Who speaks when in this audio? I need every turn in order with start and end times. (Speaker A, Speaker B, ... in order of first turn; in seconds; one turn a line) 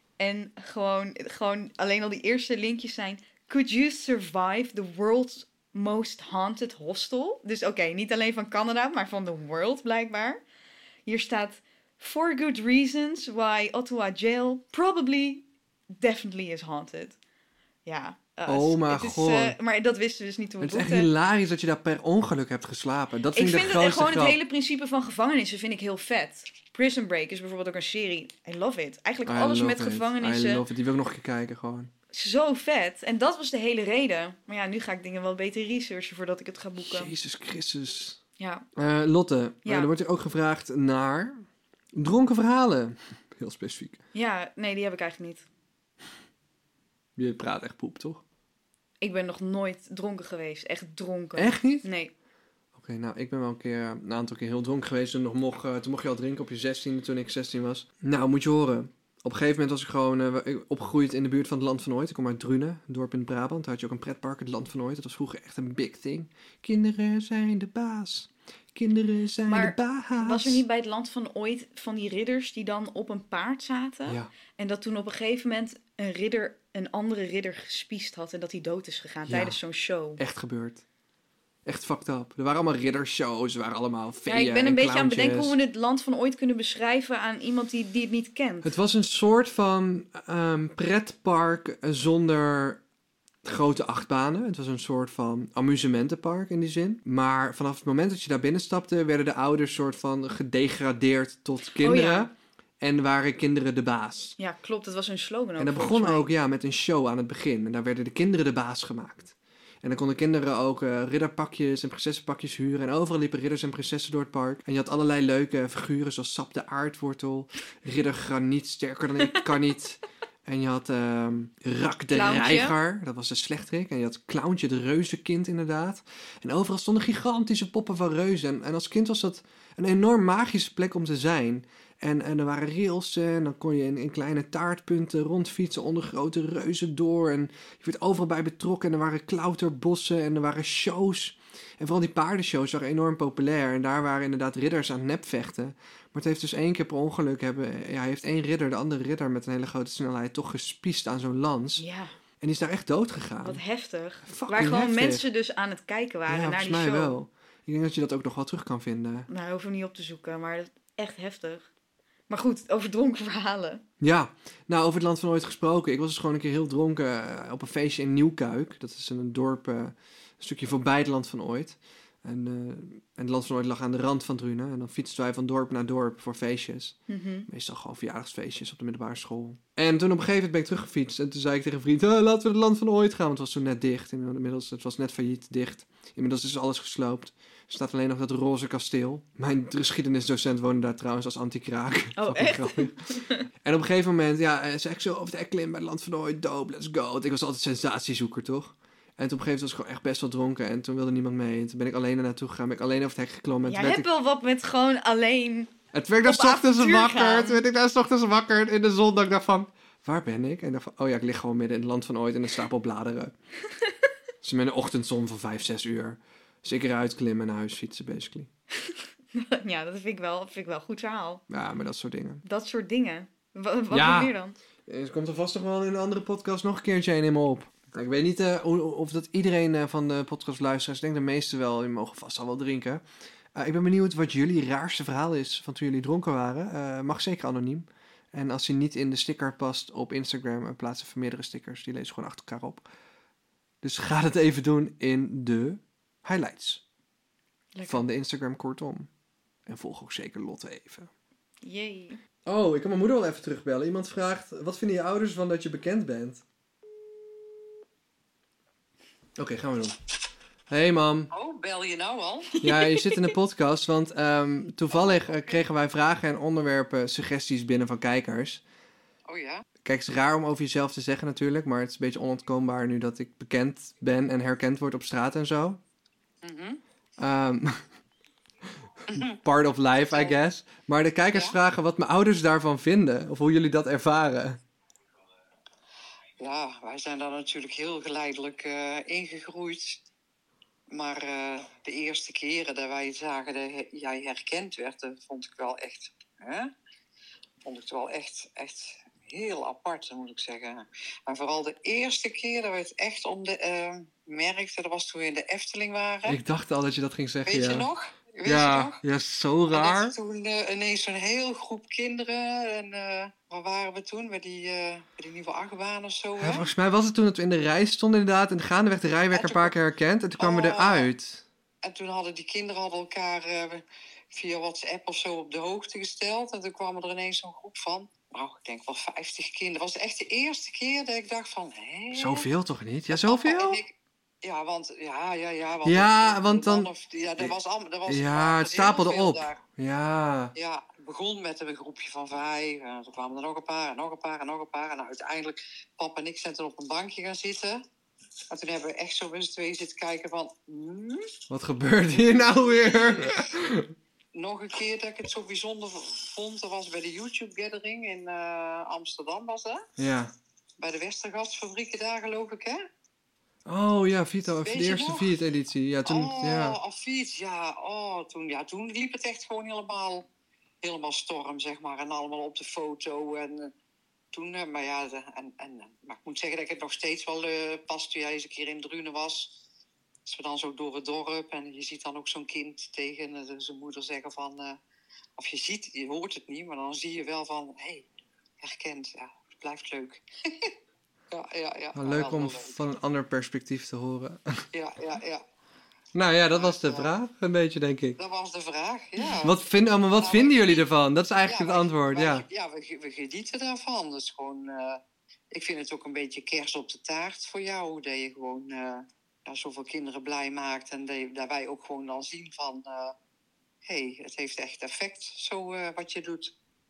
Speaker A: 0.2-10.4
Speaker A: 11.1-15.4
Speaker A: 16.0-17.2
Speaker A: 17.9-21.1
Speaker B: 18.5-19.6
Speaker B: 20.6-24.4
Speaker A: 23.3-30.6
Speaker B: 29.2-31.9
Speaker A: 32.1-37.1
Speaker B: 36.8-38.2
Speaker A: 38.4-38.7
Speaker B: 38.8-44.0
Speaker A: 39.6-39.9
Speaker A: 44.1-45.5
Speaker B: 47.2-48.2
Speaker A: 49.0-52.1
Speaker B: 51.4-51.9
Speaker B: 52.7-70.6
Speaker A: 69.5-80.2
Speaker B: 79.3-79.6
Speaker B: 80.2-80.8
Speaker B: 81.7-85.6
Speaker A: 84.3-88.7
Speaker B: 88.6-92.8
Speaker B: 93.4-104.4
Speaker A: 101.8-102.3
Speaker A: 104.4-106.3
Speaker B: 105.6-151.8
Speaker A: 122.1-122.8
Speaker A: 151.8-152.1
Speaker B: 152.4-153.6
Speaker A: 153.4-157.2
Speaker B: 154.2-155.2
Speaker B: 156.3-159.3
Speaker A: 159.3-161.7
Speaker A: 162.3-163.8
Speaker B: 164.0-193.0
Speaker A: 177.1-177.5
Speaker A: 192.2-193.4
Speaker B: 193.6-204.1
Speaker A: 203.6-205.7
Speaker B: 205.9-213.3
Speaker A: 206.2-207.6
Speaker B: 214.4-218.5
Speaker A: 218.8-221.4
Speaker B: 221.5-222.4
Speaker A: 222.4-224.6
Speaker B: 223.9-224.3
Speaker B: 224.9-233.0
Speaker B: 233.6-242.8
Speaker B: 243.8-246.8
Speaker A: 247.8-248.0
Speaker B: 247.9-249.1
Speaker B: 249.7-251.1
Speaker A: 251.6-252.2
Speaker B: 252.5-256.4
Speaker B: 259.4-260.0
Speaker B: 260.7-261.3
Speaker C: 261.3-262.6
Speaker B: 262.6-268.6
Speaker A: 262.6-263.0
Speaker C: 265.0-265.4
Speaker C: 269.3-269.6
Speaker B: 269.8-275.8
Speaker C: 276.4-276.8
Speaker B: 277.2-277.9
Speaker C: 279.1-279.4
Speaker B: 279.1-284.6
Speaker C: 286.4-290.0
Speaker C: 290.9-296.7
Speaker C: 297.6-306.4
Speaker B: 306.2-307.9
Speaker C: 307.5-309.0
Speaker B: 308.4-310.2
Speaker C: 309.7-316.7
Speaker B: 316.4-321.4
Speaker C: 319.3-319.7
Speaker C: 320.4-321.1
Speaker C: 321.8-332.5
Speaker B: 332.1-333.8
Speaker C: 333.1-339.6
Speaker B: 335.8-337.6
Speaker B: 338.1-340.5
Speaker C: 340.6-347.8
Speaker C: 348.5-351.3
Speaker B: 351.5-353.9
Speaker C: 352.8-353.4
Speaker C: 354.4-359.8
Speaker B: 360.0-360.3
Speaker C: 360.8-362.8
Speaker B: 363.7-366.8
Speaker C: 364.6-365.4
Speaker C: 366.1-370.2
Speaker C: 370.8-373.7
Speaker C: 374.3-379.6
Speaker C: 380.3-384.8
Speaker C: 385.4-388.1
Speaker C: 388.6-390.7
Speaker C: 391.3-392.8
Speaker B: 391.9-394.6
Speaker C: 394.7-395.4
Speaker B: 396.1-398.2
Speaker C: 396.5-397.1
Speaker C: 398.2-399.6
Speaker B: 399.4-402.4
Speaker C: 400.2-400.9
Speaker C: 401.5-413.1
Speaker C: 413.8-416.5